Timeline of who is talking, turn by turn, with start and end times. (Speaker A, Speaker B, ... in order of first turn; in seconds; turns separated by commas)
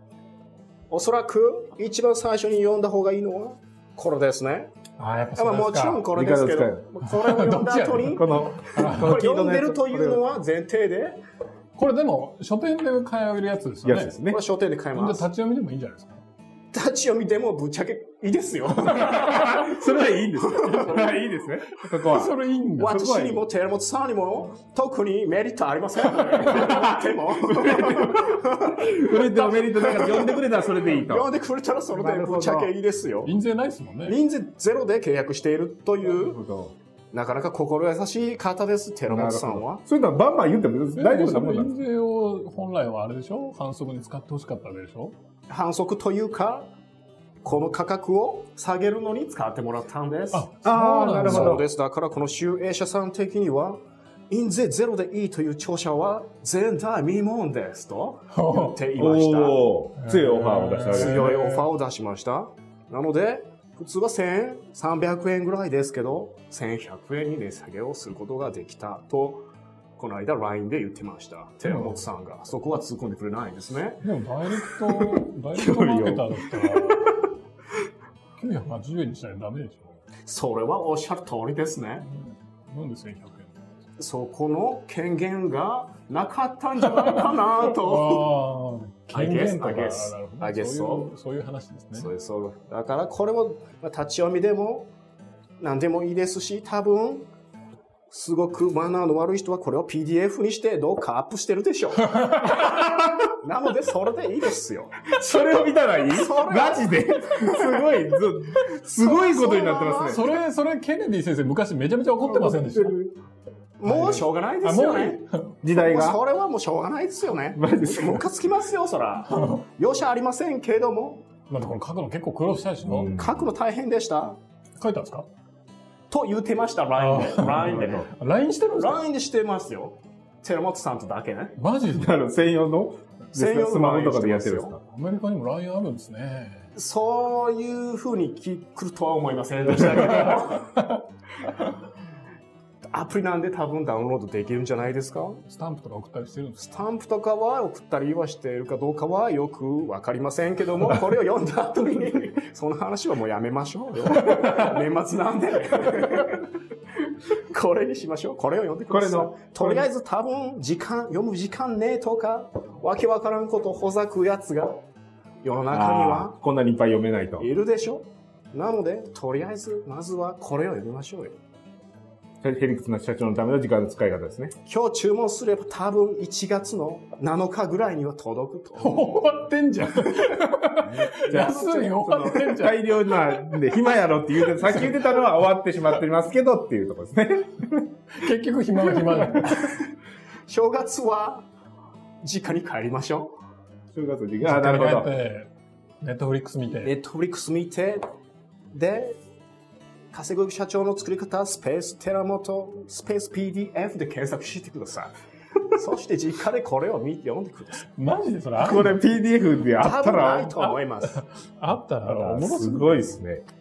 Speaker A: 0.9-4.7, Speaker B: 5.0-6.1, Speaker A: 5.3-11.2, Speaker C: 6.1-6.9, Speaker B: 7.0-9.2, Speaker C: 8.1-10.2, Speaker B: 11.8-14.2, Speaker C: 13.8-14.4, Speaker A: 14.3-15.3, Speaker B: 14.9-16.2, Speaker A: 16.7-19.8, Speaker C: 19.1-23.4, Speaker A: 20.4-21.0, Speaker B: 21.9-23.0, Speaker A: 22.8-33.3, Speaker C: 26.6-31.3, Speaker C: 31.9-32.7, Speaker B: 33.2-34.2, Speaker A: 34.1-36.4, Speaker C: 36.0-36.7, Speaker A: 37.1-39.8, Speaker C: 39.1-41.8, Speaker B: 41.0-45.1, Speaker A: 45.5-46.7, Speaker A: 47.4-50.5, Speaker B: 50.3-51.6, Speaker C: 50.6-51.7, Speaker A: 51.2-59.6, Speaker B: 58.3-58.8, Speaker C: 59.0-61.5, Speaker B: 60.0-61.7, Speaker A: 60.9-69.5, Speaker A: 70.0-74.0, Speaker B: 71.7-72.0, Speaker B: 74.0-77.2, Speaker C: 75.0-77.1, Speaker B: 78.4-80.0, Speaker A: 80.3-82.0, Speaker B: 82.1-83.5, Speaker A: 84.0-88.3, Speaker B: 86.9-92.1, Speaker A: 89.1-91.1, Speaker A: 92.0-94.9, Speaker A: 95.6-97.3, Speaker A: 98.1-102.3, Speaker B: 102.0-102.7, Speaker C: 102.6-103.2, Speaker A: 103.3-105.0, Speaker C: 105.1-110.2, Speaker A: 106.1-107.9, Speaker A: 108.8-110.2, Speaker B: 110.0-113.0, Speaker C: 112.2-113.1, Speaker A: 113.8-121.3, Speaker B: 113.8-115.6, Speaker C: 115.6-116.2, Speaker C: 117.5-118.2, Speaker B: 119.3-119.7, Speaker B: 121.5-123.2, Speaker C: 122.9-123.4, Speaker A: 123.1-124.4, Speaker B: 124.8-125.3, Speaker A: 126.1-128.1, Speaker B: 127.0-129.0, Speaker A: 128.8-131.6, Speaker B: 131.6-132.1, Speaker C: 131.9-134.8, Speaker A: 133.3-134.8, Speaker B: 134.8-136.7, Speaker A: 136.8-140.8, Speaker A: 142.9-145.4, Speaker B: 145.4-146.8, Speaker A: 146.6-156.4, Speaker A: 157.5-164.8, Speaker C: 158.9-159.9, Speaker A: 165.4-166.3, Speaker C: 165.7-167.5, Speaker A: 167.4-171.3, Speaker C: 172.4-174.6, Speaker A: 174.7-179.2, Speaker B: 178.8-183.7, Speaker C: 180.8-187.9, Speaker A: 181.1-182.5, Speaker B: 184.5-185.1, Speaker B: 188.2-189.6, Speaker A: 189.4-189.9, Speaker A: 190.5-191.5, Speaker A: 192.2-193.3, Speaker C: 193.9-195.1, Speaker B: 194.4-195.5, Speaker B: 196.0-196.9, Speaker A: 196.8-198.1, Speaker A: 198.7-199.2, Speaker A: 200.1-205.1, Speaker A: 205.7-207.9, Speaker B: 208.0-209.0, Speaker C: 208.6-210.6, Speaker A: 209.8-211.2, Speaker B: 210.6-213.2, Speaker C: 212.1-213.4